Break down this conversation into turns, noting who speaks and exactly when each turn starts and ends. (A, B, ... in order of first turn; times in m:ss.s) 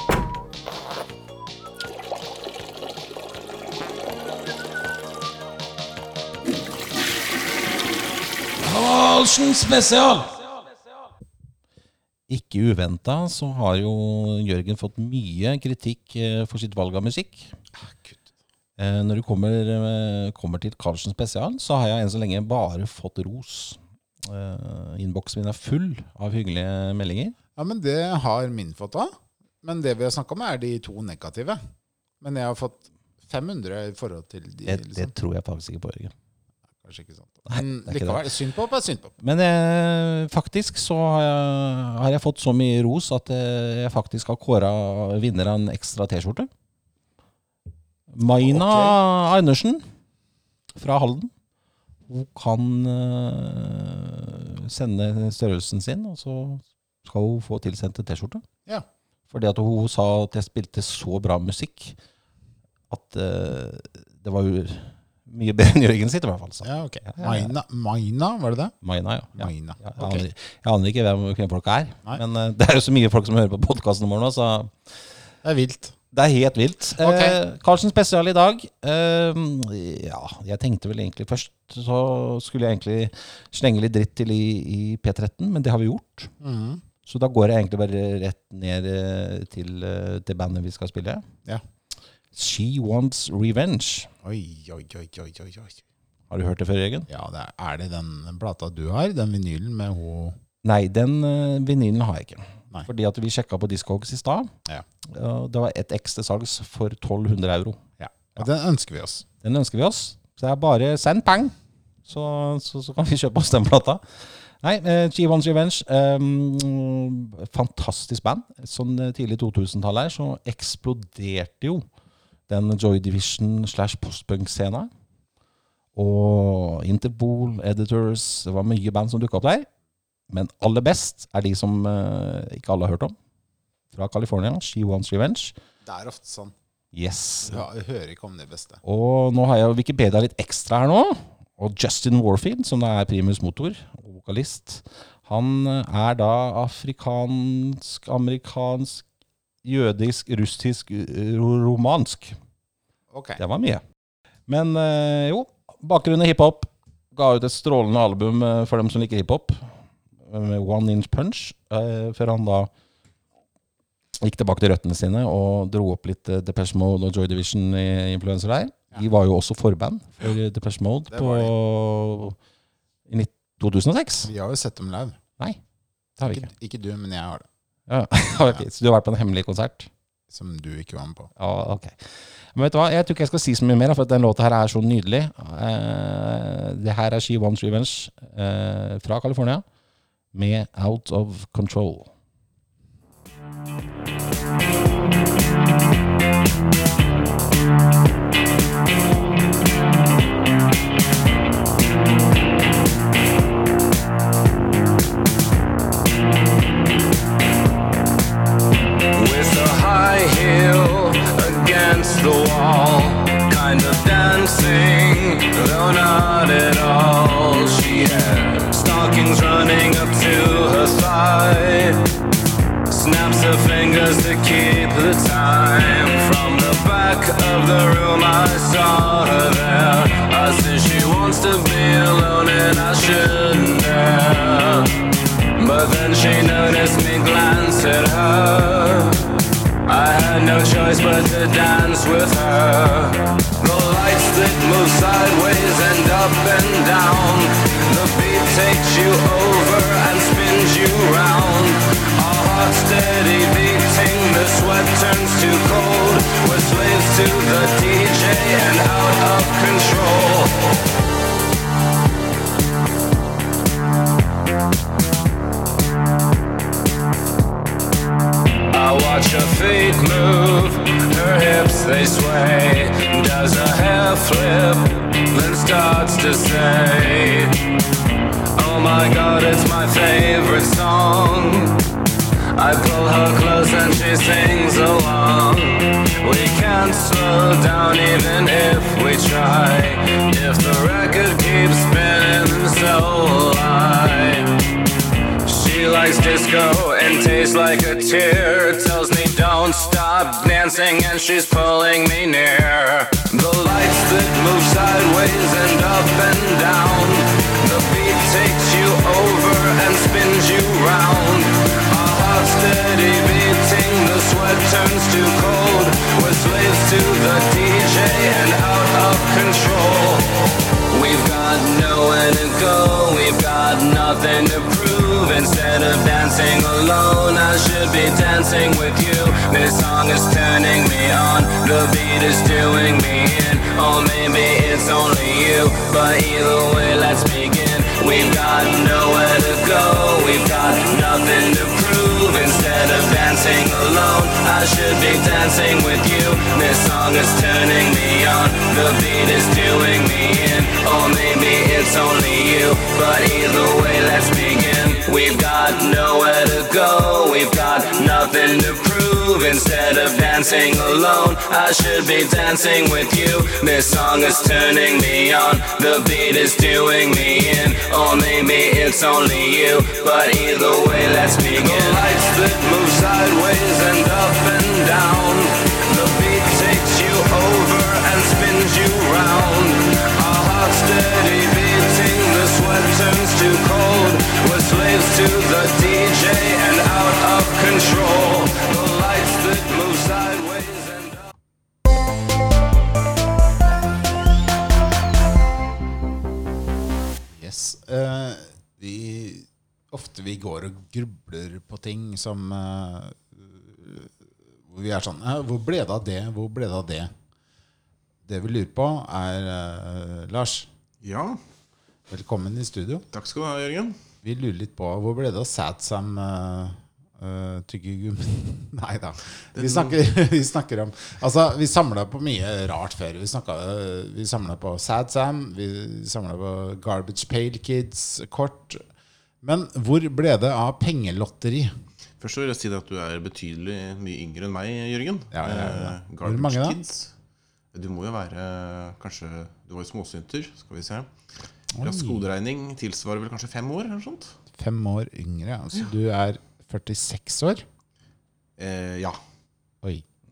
0:08.6-0:10.5 A
0:12.3-0:17.5 A
0:17.7-0:18.3 B
0:18.8-0:27.4 A
0:27.6-0:31.6 B
0:32.2-0:35.1 B
0:34.7-0:36.1 A
0:36.8-0:39.2 B
0:37.5-0:38.2 A
0:39.2-0:46.5 A
0:48.1-0:49.8 A
0:48.4-0:49.0 B
0:50.7-0:51.3 A
0:52.1-0:58.4 A
0:59.3-1:02.0 A
1:02.9-1:07.5 A
1:06.6-1:08.7 B
1:08.8-1:14.8 A
1:09.4-1:10.3 B
1:15.4-1:16.0 B
1:16.1-1:26.3 A
1:17.0-1:17.4 B
1:26.4-1:26.8 B
1:27.1-1:31.2 A
1:32.3-1:34.1 A
1:34.2-1:35.8 B
1:36.3-1:37.1 A
1:37.1-1:40.4 B
1:40.6-1:44.5 A
1:45.0-1:47.8 A
1:48.0-1:49.3 B
1:49.4-1:51.5 A
1:52.1-1:54.0 A
1:54.6-2:01.8 A
2:02.5-2:04.9 A
2:06.0-2:09.7 A
2:10.3-2:13.2 A
2:13.9-2:15.6 A
2:15.8-2:16.5 B
2:16.9-2:17.6 A
2:17.4-2:18.8 B
2:18.8-2:29.0 A
2:29.6-2:32.4 A
2:33.1-2:33.4 B
2:33.4-2:33.8 A
2:34.5-2:39.7 A
2:40.2-2:42.7 A
2:44.2-2:52.4 A
2:51.1-2:51.5 B
2:53.1-2:54.3 A
2:54.2-2:55.2 B
2:56.2-2:56.5 A
2:56.2-2:57.5 B
2:57.9-2:59.9 A
3:00.3-3:01.3 B
3:01.4-3:09.6 A
3:10.3-3:12.1 A
3:29.1-3:42.0 C
3:42.9-3:54.9 C
3:55.6-3:59.3 C
3:59.9-4:20.7 C
4:28.7-4:37.6 C
4:38.6-4:41.8 C
4:42.6-4:54.6 C
4:55.4-6:31.3 C
6:37.3-6:44.1 B
6:44.7-6:47.1 B
6:48.3-6:50.7 B
6:51.0-6:51.4 D
6:52.1-6:53.1 B
6:53.1-6:54.0 D
6:54.2-7:08.8 B
6:59.6-7:00.0 D
7:09.4-7:11.7 B
7:12.2-7:17.1 D
7:15.3-7:16.8 B
7:17.7-7:21.1 D
7:21.7-7:22.2 B
7:21.8-7:24.4 D
7:24.6-7:27.6 B
7:28.6-7:29.2 D